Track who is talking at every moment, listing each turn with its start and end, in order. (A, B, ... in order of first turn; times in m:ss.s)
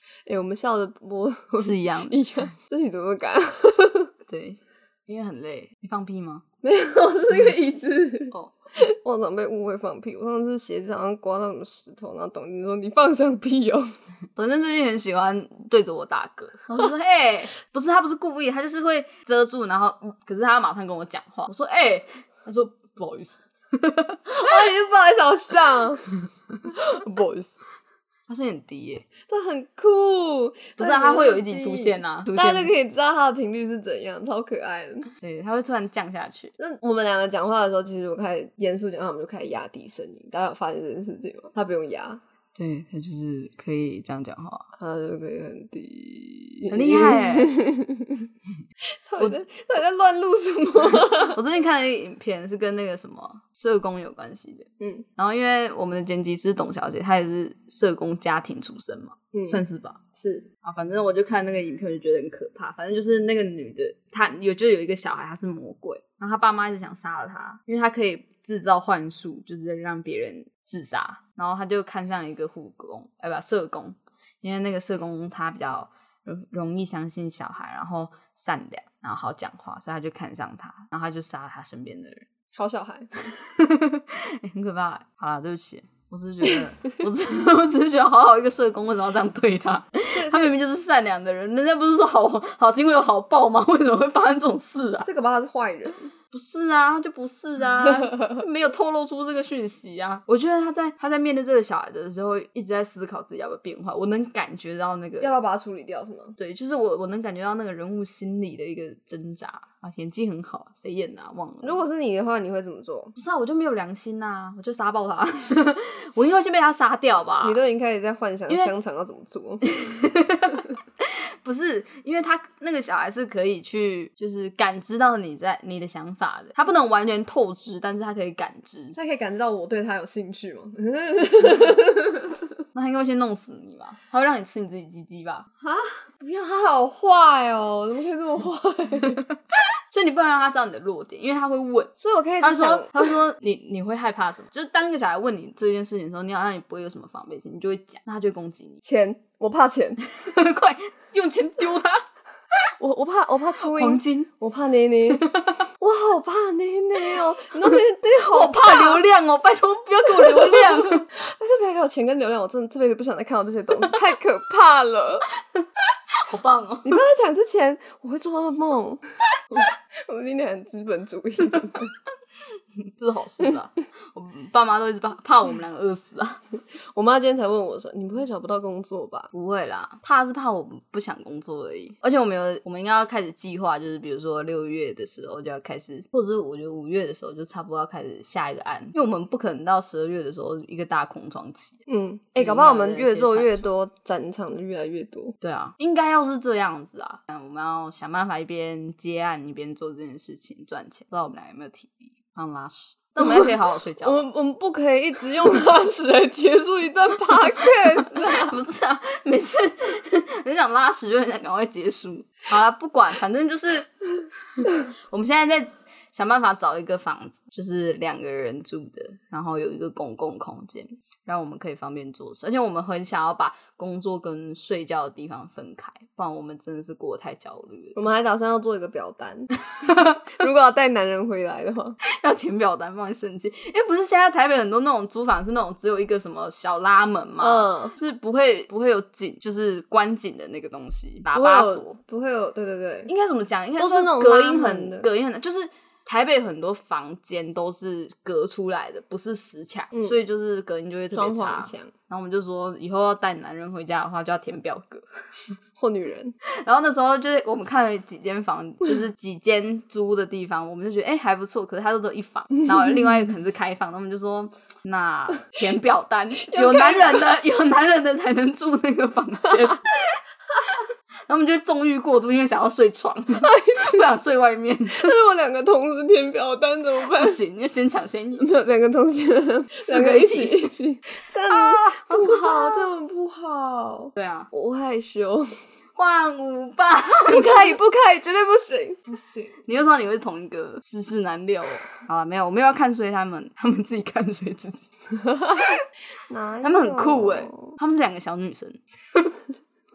0:00.2-0:04.1 A
0:01.6-0:02.2 B
0:04.3-0:06.4 B
0:06.6-0:13.9 A
0:14.4-0:24.2 B
0:24.3-0:26.1 A
0:26.6-0:27.6 A
0:28.3-0:29.1 B
0:29.3-0:35.1 A
0:30.8-0:32.7 B
0:35.2-0:36.5 B
0:36.6-0:42.2 A
0:42.6-0:44.7 B
0:44.8-0:48.3 A
0:46.7-0:47.6 B
0:49.1-0:51.4 A
0:50.9-1:22.2 B
0:54.8-0:55.0 A
0:59.3-0:59.6 A
1:00.2-1:00.4 A
1:22.5-1:23.1 A
1:23.3-1:35.1 B
1:30.1-1:30.6 A
1:35.0-1:36.1 A
1:36.3-1:45.3 B
1:45.2-1:46.4 A
1:46.4-1:51.8 B
1:51.6-1:53.1 A
1:53.1-1:57.6 B
1:57.4-1:59.7 A
1:59.6-2:09.0 B
2:09.0-2:12.5 A
2:12.7-2:15.5 B
2:15.6-2:19.2 A
2:19.9-2:28.8 B
2:22.0-2:23.1 A
2:28.8-2:30.0 A
2:30.1-2:32.0 B
2:32.8-2:35.2 A
2:33.7-2:34.3 B
2:35.2-2:35.6 B
2:35.8-2:39.0 A
2:38.2-2:41.1 B
2:40.1-2:45.3 A
2:45.5-2:47.0 B
2:46.8-2:51.9 A
2:52.9-2:56.4 B
2:56.7-2:59.3 A
2:59.3-3:11.8 B
3:11.9-3:15.4 A
3:12.4-3:13.6 B
3:15.4-3:24.2 B
3:23.2-3:28.6 A
3:27.6-3:33.9 B
3:34.6-3:48.1 B
3:48.0-3:49.5 A
3:49.8-3:50.2 B
3:50.2-3:52.0 A
3:52.0-4:02.0 B
3:57.4-3:57.9 A
4:01.3-4:03.1 A
4:03.1-4:15.0 B
4:03.8-4:05.1 A
4:09.9-4:10.2 A
4:11.1-4:11.9 A
4:15.8-4:16.3 A
4:16.6-4:35.1 B
4:26.4-4:27.3 A
4:33.4-4:34.1 A
4:34.9-4:37.4 A
4:37.0-4:38.5 B
4:38.4-4:45.6 A
4:39.8-4:40.7 B
4:41.5-4:42.9 B
4:44.2-4:44.5 B
4:46.0-4:47.7 B
4:47.2-4:49.5 A
4:49.5-4:54.9 B
4:55.2-4:55.7 A
4:56.3-4:57.8 A
4:56.6-4:59.2 B